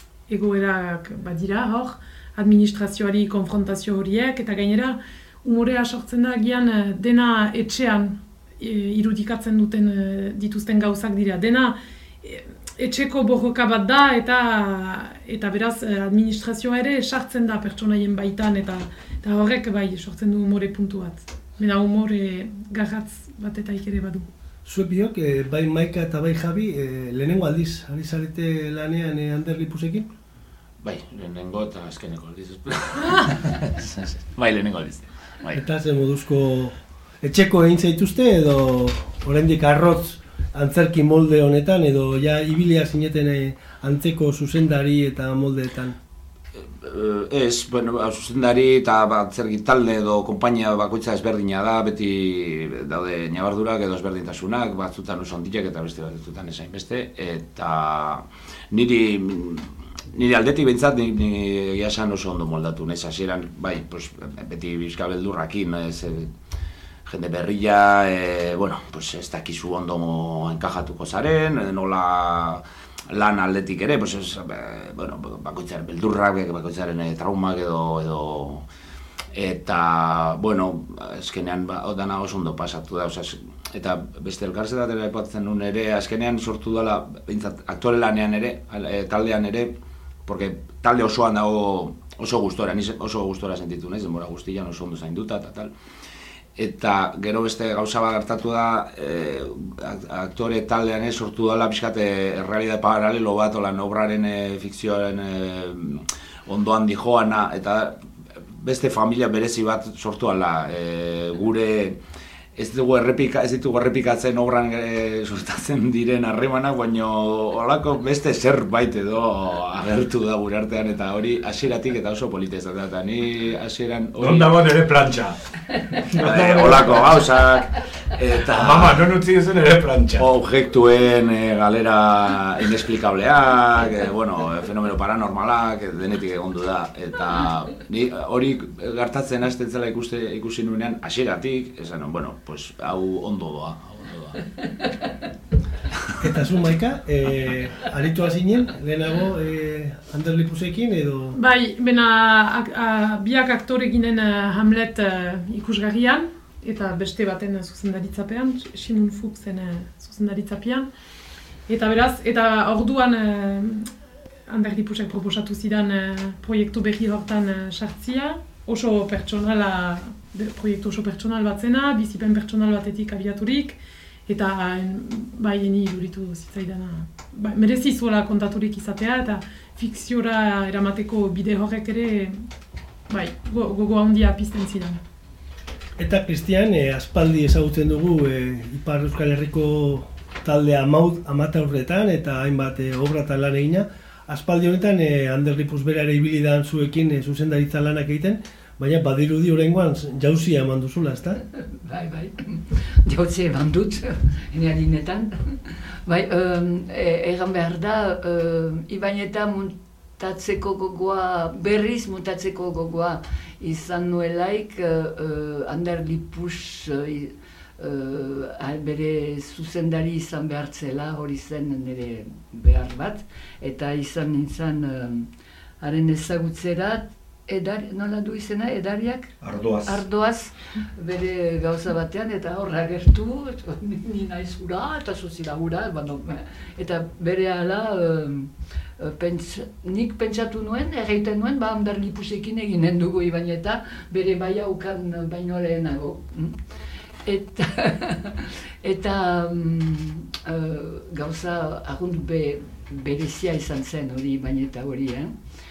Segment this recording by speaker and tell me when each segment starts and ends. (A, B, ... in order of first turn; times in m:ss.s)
0:00.3-0:24.3 A
0:24.6-0:30.1 B
0:30.8-0:35.6 C
0:35.5-0:46.0 B
0:46.6-1:06.3 C
1:07.0-1:18.6 C
1:19.3-1:29.8 C
1:30.2-1:35.7 C
1:36.6-1:48.0 C
1:48.5-1:52.0 C
1:52.5-2:04.5 C
2:04.2-2:05.4 D
2:05.9-2:07.2 D
2:06.1-2:09.0 C
2:08.5-2:10.3 D
2:10.2-2:24.5 C
2:26.2-2:31.4 B
2:31.3-2:40.9 A
2:41.7-2:43.9 A
2:44.5-3:02.4 A
3:03.1-3:05.0 A
3:06.0-3:21.4 B
3:21.7-3:45.3 E
3:45.8-3:49.3 E
3:49.4-3:50.0 D
3:49.8-4:06.6 E
4:07.2-4:15.3 E